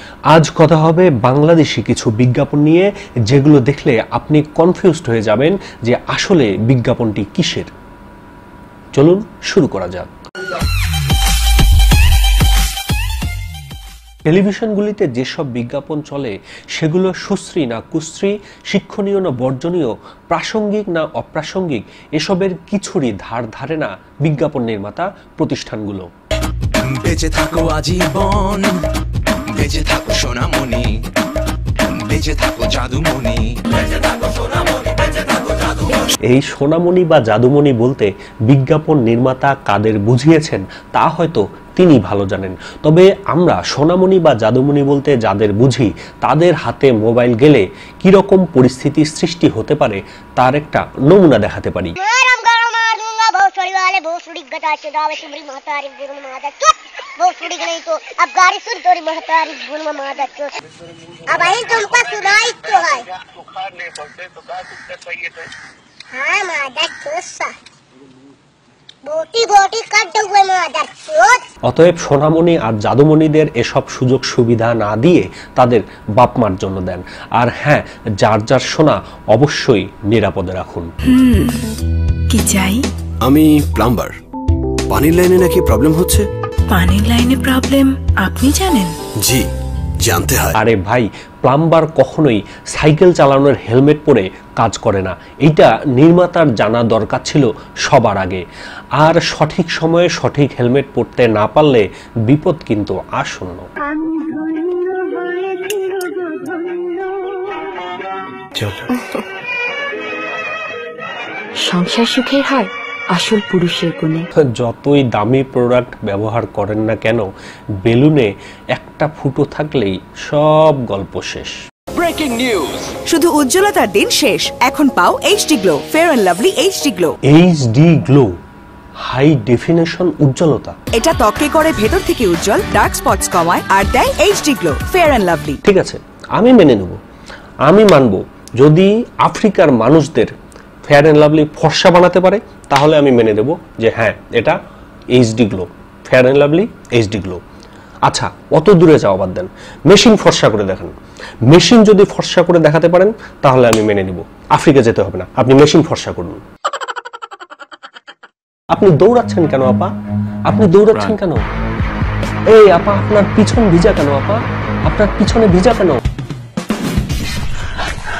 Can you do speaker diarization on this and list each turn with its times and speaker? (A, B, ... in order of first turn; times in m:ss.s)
0:00.3-0:07.7 A
0:08.9-0:10.1 A
0:14.2-0:26.1 A
0:26.9-0:28.7 B
0:29.5-0:30.9 B
0:31.9-0:33.5 B
0:36.2-0:52.0 A
0:52.0-1:00.6 C
1:01.3-1:03.1 C
1:06.1-1:07.5 C
1:09.0-1:11.4 C
1:11.6-1:20.9 A
1:21.1-1:21.6 D
1:22.3-1:22.8 D
1:23.2-1:24.1 E
1:24.9-1:26.3 E
1:26.7-1:28.9 D
1:29.2-1:29.5 E
1:30.0-1:30.5 E
1:30.5-1:38.4 A
1:39.0-1:43.7 A
1:51.6-1:54.3 F
1:54.4-1:57.3 A
1:57.8-2:01.5 A
2:03.1-2:07.1 G
2:07.3-2:08.3 A
2:09.1-2:10.7 A
2:10.9-2:15.6 G
2:15.6-2:17.0 A
2:17.7-2:20.3 A
2:20.8-2:24.6 A
2:25.1-2:27.4 A
2:28.1-2:30.9 A
2:31.5-2:36.4 A
2:38.7-2:39.9 A
2:40.5-2:41.4 A
2:42.5-2:46.0 A